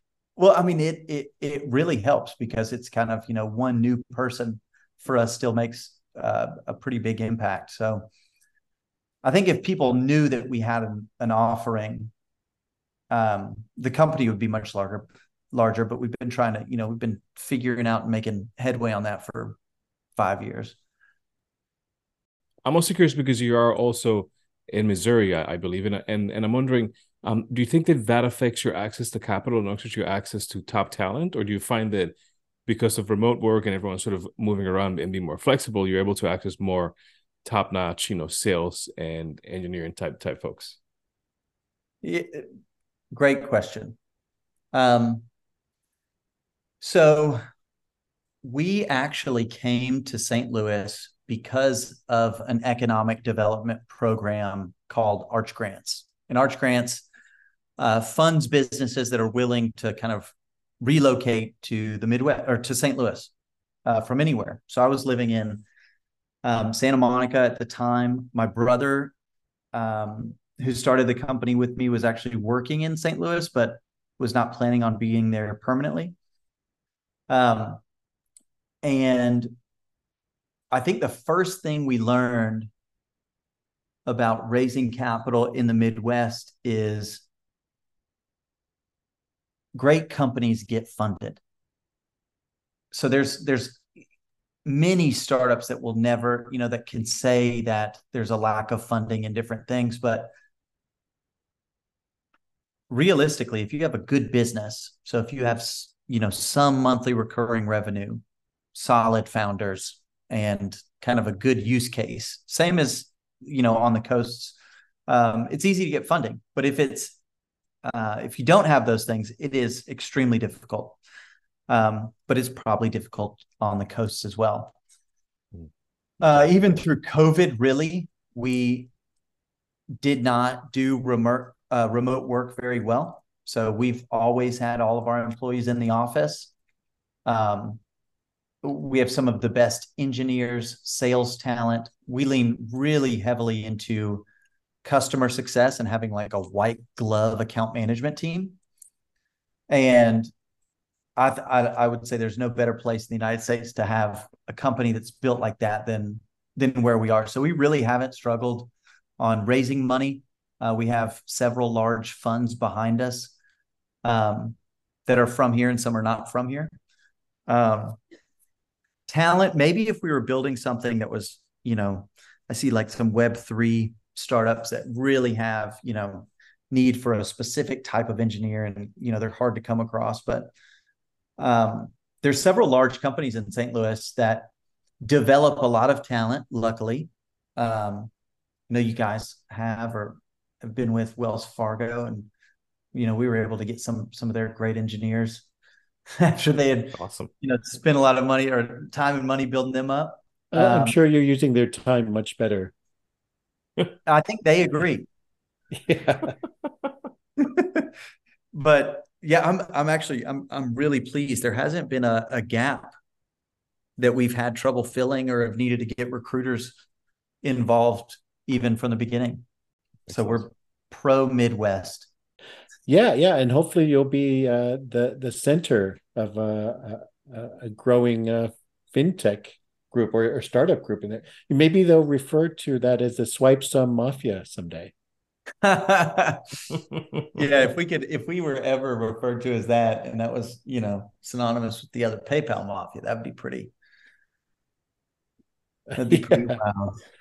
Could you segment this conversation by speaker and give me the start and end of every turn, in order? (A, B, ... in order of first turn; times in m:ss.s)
0:00.4-0:08.1 A
0:09.2-0:12.1 A
0:13.1-0:19.6 A
0:20.2-0:20.8 A
0:22.6-0:32.2 B
0:32.7-0:40.8 B
0:42.0-0:42.5 A
0:43.1-0:44.0 A
0:44.7-0:45.2 A
0:46.8-0:47.4 A
0:48.4-0:57.1 A
0:57.8-1:03.3 A
1:03.9-1:05.6 A
1:06.4-1:09.1 A
1:09.7-1:16.2 A
1:17.3-1:17.8 A
1:18.8-1:19.5 A
1:20.7-1:22.7 A
1:24.1-1:27.2 A
1:29.7-1:31.4 A
1:32.9-1:33.8 A
1:34.6-1:40.3 A
1:42.9-1:48.2 A
1:48.7-1:57.2 A
1:57.8-2:01.0 A
2:01.7-2:04.8 A
2:06.2-2:08.9 A
2:10.0-2:16.5 A
2:17.3-2:17.8 A
2:18.6-2:24.3 A
2:24.8-2:28.6 A
2:29.7-2:30.3 A
2:31.2-2:43.3 A
2:44.0-2:46.7 A
2:47.5-2:48.0 A
2:49.1-3:00.5 A
3:01.4-3:04.5 A
3:05.0-3:08.1 A
3:08.7-3:12.3 A
3:12.9-3:15.5 A
3:16.2-3:21.0 A
3:17.0-3:17.3 B
3:20.5-3:22.7 C
3:24.0-3:25.1 A
3:25.7-3:26.4 C
3:27.4-3:27.9 A
3:28.5-3:32.9 A
3:34.0-3:36.8 A
3:37.4-3:39.4 A
3:40.1-3:42.1 A
3:42.9-3:54.9 C
3:55.6-3:56.8 A
3:57.3-4:03.7 A
4:06.0-4:07.0 A
4:06.1-4:06.6 C